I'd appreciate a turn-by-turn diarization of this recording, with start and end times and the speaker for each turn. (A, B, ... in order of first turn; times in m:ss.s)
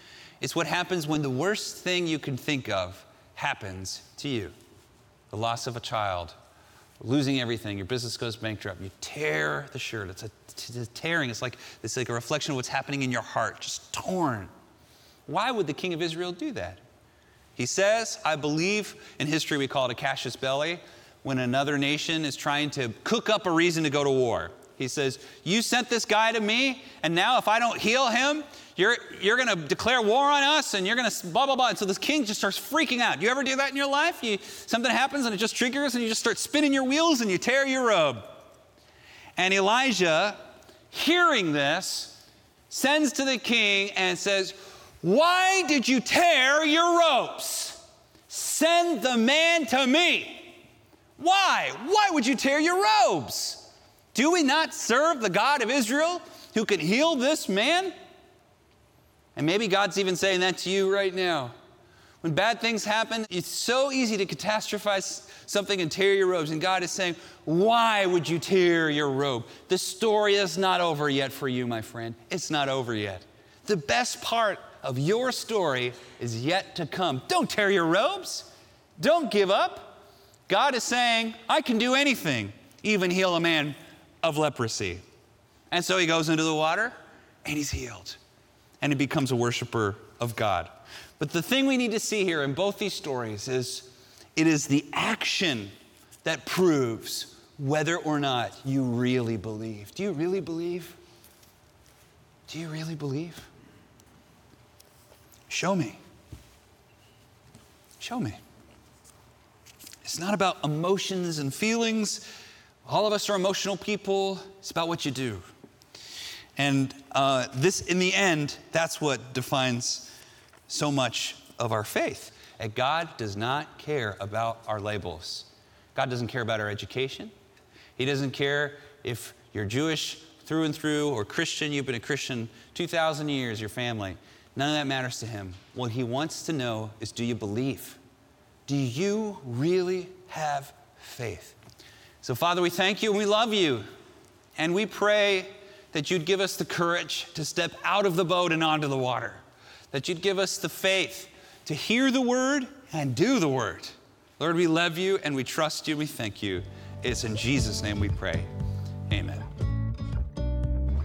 0:00.4-0:04.5 A
0:05.3-0:06.4 A
0:07.0-0:14.5 A
0:15.3-0:16.8 A
0:17.6-0:38.3 A
0:39.4-0:40.4 A
0:40.9-0:42.2 A
0:42.7-0:50.6 A
0:51.2-0:57.9 A
0:59.4-1:01.5 A
1:02.2-1:20.0 A
1:20.5-1:25.0 A
1:25.7-1:28.2 A
1:28.8-1:35.7 A
1:36.2-1:41.0 A
1:42.5-1:43.5 A
1:45.5-1:46.0 A
1:48.0-1:48.4 A
1:50.0-1:52.2 A
1:52.8-1:55.4 A
1:56.6-2:00.1 A
2:00.7-2:07.3 A
2:08.0-2:18.0 A
2:18.7-2:21.6 A
2:22.2-2:23.8 A
2:24.6-2:38.5 A
2:39.1-2:39.5 A